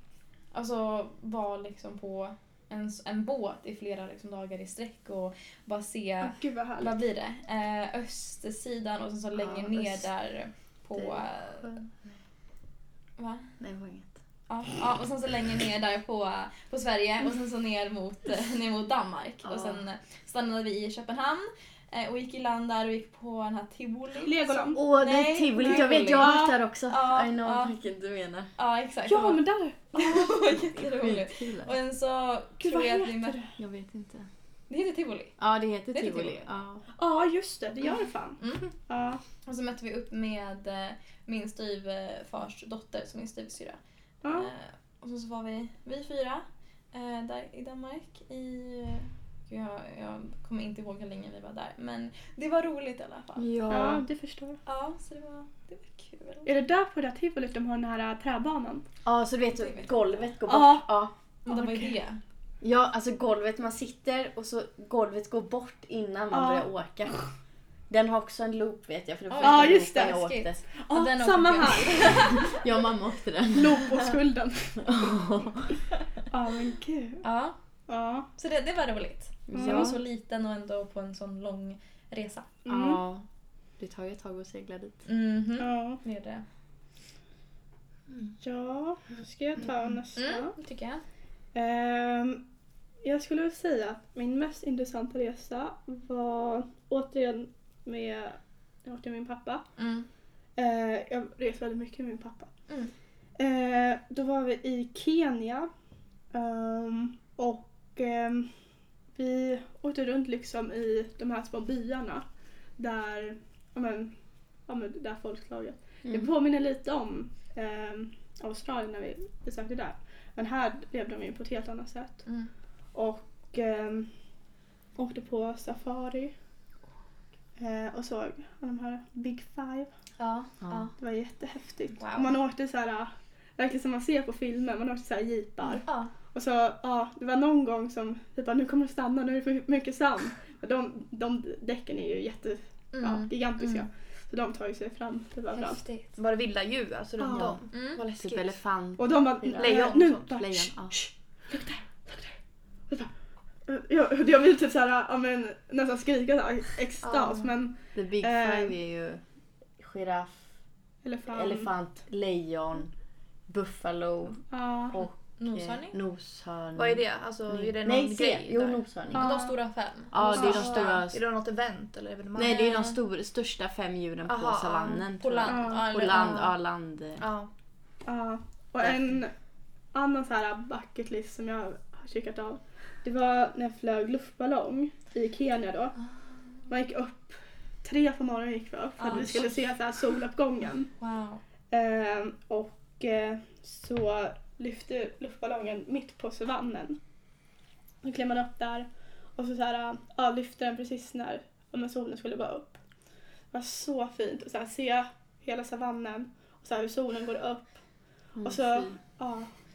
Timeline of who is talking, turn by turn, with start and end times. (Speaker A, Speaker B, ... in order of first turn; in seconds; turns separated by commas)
Speaker A: 0.5-11.8, Speaker B: 6.2-7.0, Speaker C: 9.3-10.1, Speaker C: 10.9-12.2, Speaker A: 13.2-13.5, Speaker C: 13.6-14.1, Speaker A: 14.5-27.7, Speaker C: 19.4-19.8, Speaker B: 24.2-24.8, Speaker C: 24.7-28.5, Speaker B: 25.6-26.5, Speaker A: 28.6-29.4, Speaker B: 29.1-30.3, Speaker A: 29.9-33.4, Speaker C: 30.6-31.7, Speaker B: 32.6-33.5, Speaker C: 33.6-34.3, Speaker A: 34.7-35.4, Speaker C: 35.4-36.8, Speaker A: 35.9-36.4, Speaker B: 37.0-39.2, Speaker A: 37.9-38.7, Speaker A: 39.5-53.5, Speaker B: 44.2-44.5, Speaker C: 53.4-54.0, Speaker B: 53.7-54.6, Speaker A: 54.7-56.5, Speaker B: 56.5-58.9, Speaker C: 59.0-61.1, Speaker A: 59.6-59.9, Speaker B: 60.5-61.0, Speaker A: 61.5-62.2, Speaker B: 61.5-62.0, Speaker C: 62.6-67.2, Speaker B: 66.3-66.7, Speaker C: 67.9-70.6, Speaker A: 69.3-72.5, Speaker B: 69.4-70.2, Speaker B: 70.8-72.5, Speaker C: 72.0-74.0, Speaker B: 73.5-75.2, Speaker C: 74.8-75.8, Speaker B: 76.3-77.2, Speaker A: 77.2-77.5, Speaker B: 77.9-78.3, Speaker A: 78.4-82.5, Speaker C: 79.5-80.0, Speaker B: 79.5-80.0, Speaker B: 82.7-83.0, Speaker C: 82.7-83.2, Speaker C: 83.8-85.0, Speaker A: 85.1-86.4, Speaker B: 85.6-86.0, Speaker B: 88.4-90.5, Speaker A: 90.2-91.0, Speaker B: 91.5-92.4, Speaker B: 93.0-99.6, Speaker A: 99.8-100.1, Speaker B: 100.6-102.5, Speaker B: 103.4-105.7, Speaker B: 106.3-108.5, Speaker B: 109.2-112.2, Speaker B: 112.8-114.1, Speaker B: 114.7-122.3, Speaker C: 116.0-116.3, Speaker B: 122.9-124.1, Speaker B: 125.0-126.3, Speaker B: 127.6-129.9, Speaker A: 130.2-130.9, Speaker C: 130.6-130.9, Speaker B: 131.0-145.8, Speaker A: 132.0-132.3, Speaker A: 135.9-136.1, Speaker A: 142.9-143.9, Speaker A: 145.5-146.1, Speaker D: 146.2-148.6, Speaker B: 147.2-147.5, Speaker C: 147.3-147.6, Speaker A: 147.7-148.0, Speaker C: 148.2-151.0, Speaker B: 149.0-152.4, Speaker D: 149.6-150.3, Speaker B: 153.7-158.7, Speaker D: 157.0-157.5, Speaker C: 157.9-159.2, Speaker C: 159.8-160.5, Speaker B: 161.0-161.7, Speaker C: 161.3-162.9, Speaker C: 163.5-169.4, Speaker B: 164.5-165.0, Speaker A: 165.4-165.9, Speaker D: 166.8-168.8, Speaker B: 169.1-169.6, Speaker A: 169.1-171.0, Speaker C: 170.1-171.2, Speaker B: 170.3-171.0, Speaker D: 170.4-172.7, Speaker C: 172.3-177.2, Speaker A: 172.4-173.0, Speaker D: 174.2-175.1, Speaker A: 175.2-176.5, Speaker B: 175.4-175.8, Speaker D: 177.2-177.5, Speaker B: 178.1-179.3, Speaker C: 178.8-179.2, Speaker B: 179.9-185.9, Speaker B: 186.7-190.9, Speaker A: 189.0-189.5, Speaker A: 191.0-191.4, Speaker B: 191.7-197.0, Speaker B: 198.0-202.8, Speaker B: 203.5-207.7, Speaker C: 208.4-209.0, Speaker B: 208.4-209.5